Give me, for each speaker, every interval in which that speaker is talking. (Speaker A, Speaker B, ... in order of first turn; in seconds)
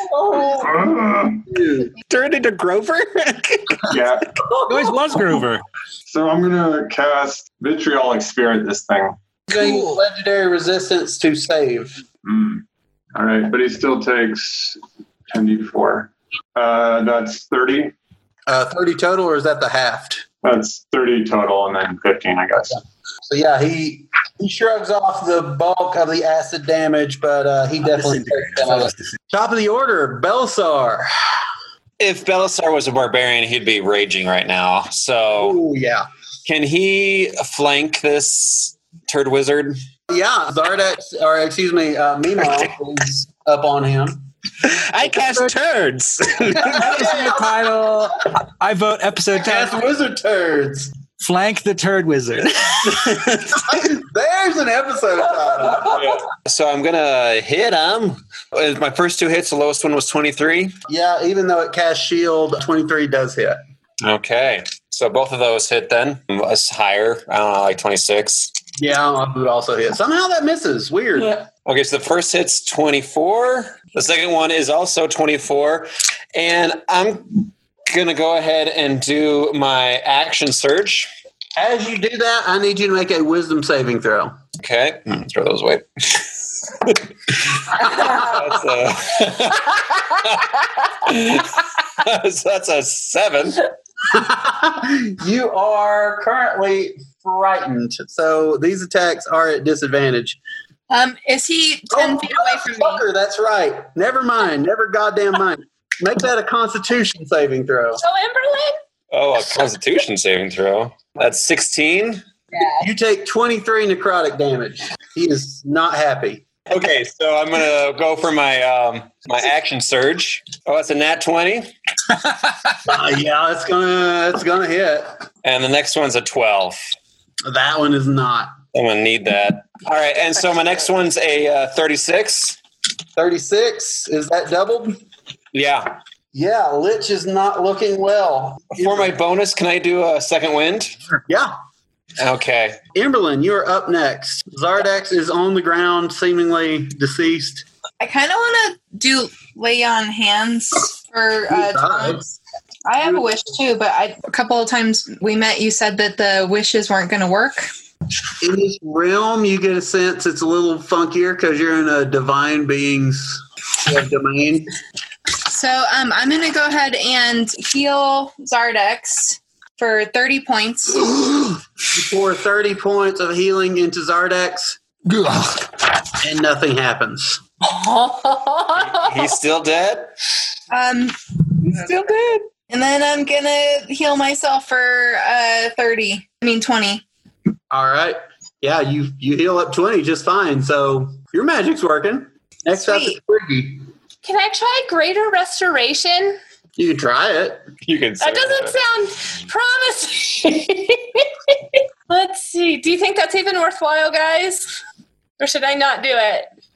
Speaker A: 0.1-0.8, 1.5-1.9, 9.5-12.0, 18.5-20.2, 23.3-31.1, 35.4-36.1, 40.1-44.3, 46.7-47.4, 49.3-50.9, 53.7-56.0, 60.9-63.6, 68.8-71.5, 81.6-84.3, 94.1-100.4, 101.9-108.0, 112.8-116.5, 122.8-125.2, 127.5-128.5, 133.2-135.0, 136.3-139.2, 142.9-147.6, 151.5-152.2, 158.4-164.7, 171.9-174.8, 176.2-177.4, 187.7-193.8, 196.8-197.7
Speaker B: 0.5-1.4, 3.9-4.3, 6.1-9.2, 12.2-12.6, 13.1-14.8, 15.3-17.9, 20.4-22.8
Speaker C: 2.1-3.8, 44.6-47.0
Speaker D: 4.7-5.6, 9.5-10.0, 46.6-49.8, 51.2-53.6
Speaker E: 32.0-35.6, 36.5-39.8, 55.9-60.8, 64.0-68.5, 71.7-81.1, 84.6-93.7, 109.1-112.2, 116.7-121.7, 125.4-126.8, 128.7-132.6, 135.5-136.0, 138.8-140.9, 142.2-142.8, 178.8-180.1, 197.9-198.8
Speaker F: 100.9-103.0, 148.0-152.3, 152.9-157.7, 165.5-171.1, 180.7-181.2, 181.7-187.0, 192.8-193.2
Speaker G: 108.0-108.8, 177.7-179.1, 194.2-196.4, 198.2-201.2, 202.1-204.8, 205.4-206.5